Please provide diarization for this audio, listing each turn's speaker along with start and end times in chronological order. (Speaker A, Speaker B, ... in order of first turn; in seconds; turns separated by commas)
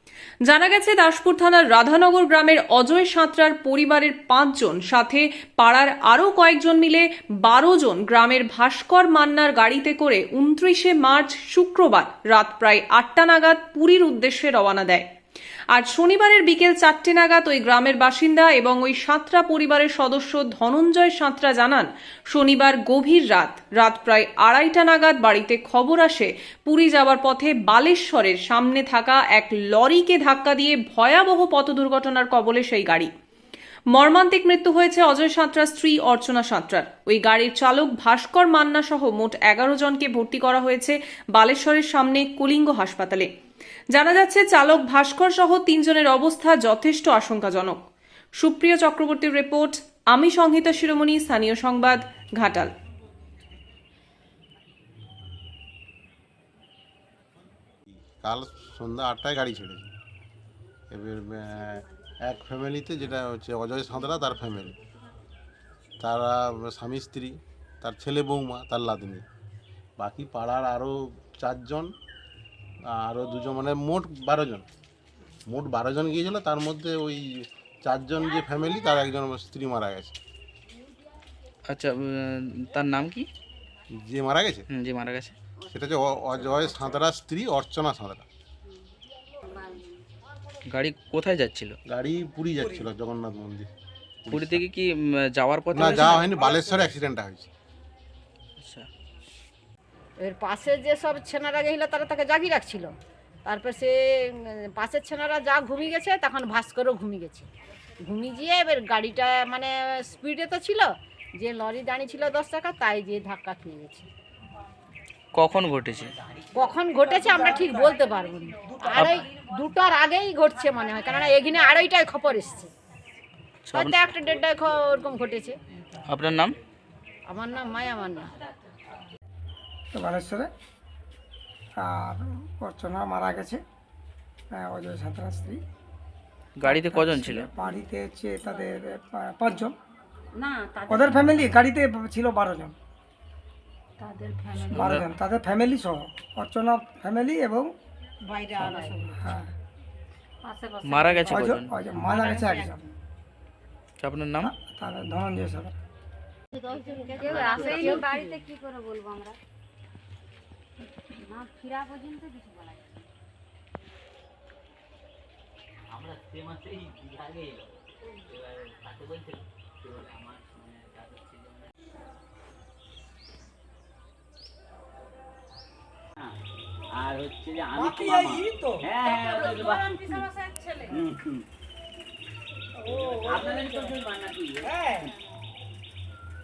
Speaker A: 0.5-15.1, Speaker A: 15.7-33.1, Speaker A: 33.9-43.3, Speaker A: 43.9-47.8, Speaker A: 48.4-52.7, Speaker B: 57.9-59.9, Speaker B: 60.9-64.8, Speaker B: 66.0-69.2, Speaker B: 70.0-71.9, Speaker B: 72.9-74.7, Speaker B: 75.5-80.1, Speaker C: 81.7-83.3, Speaker B: 84.0-84.7, Speaker C: 84.7-85.3, Speaker B: 85.7-88.2, Speaker D: 89.5-90.0, Speaker C: 90.7-91.8, Speaker B: 91.9-93.7, Speaker B: 94.2-94.6, Speaker C: 94.3-96.4, Speaker B: 95.7-97.5, Speaker C: 98.6-98.9, Speaker E: 100.2-102.9, Speaker E: 103.4-107.5, Speaker E: 108.0-114.1, Speaker C: 115.3-116.1, Speaker F: 116.2-116.7, Speaker E: 116.5-122.7, Speaker C: 118.9-119.2, Speaker C: 123.6-124.1, Speaker E: 123.7-125.6, Speaker C: 126.1-126.5, Speaker E: 127.3-128.3, Speaker G: 129.9-130.5, Speaker G: 131.8-133.6, Speaker G: 134.5-135.6, Speaker C: 136.6-137.5, Speaker G: 136.6-139.8, Speaker D: 140.4-141.5, Speaker G: 140.9-142.8, Speaker G: 144.6-147.7, Speaker C: 144.7-145.1, Speaker G: 148.6-149.5, Speaker C: 150.8-151.7, Speaker G: 151.3-152.9, Speaker C: 154.0-154.5, Speaker G: 154.4-155.7, Speaker D: 156.6-159.4, Speaker E: 156.9-158.3, Speaker D: 161.3-163.1, Speaker F: 165.9-167.7, Speaker F: 168.2-171.7, Speaker F: 177.0-180.3, Speaker G: 177.8-178.9, Speaker F: 180.9-181.4, Speaker G: 182.9-183.8, Speaker F: 182.9-185.2, Speaker G: 184.7-185.0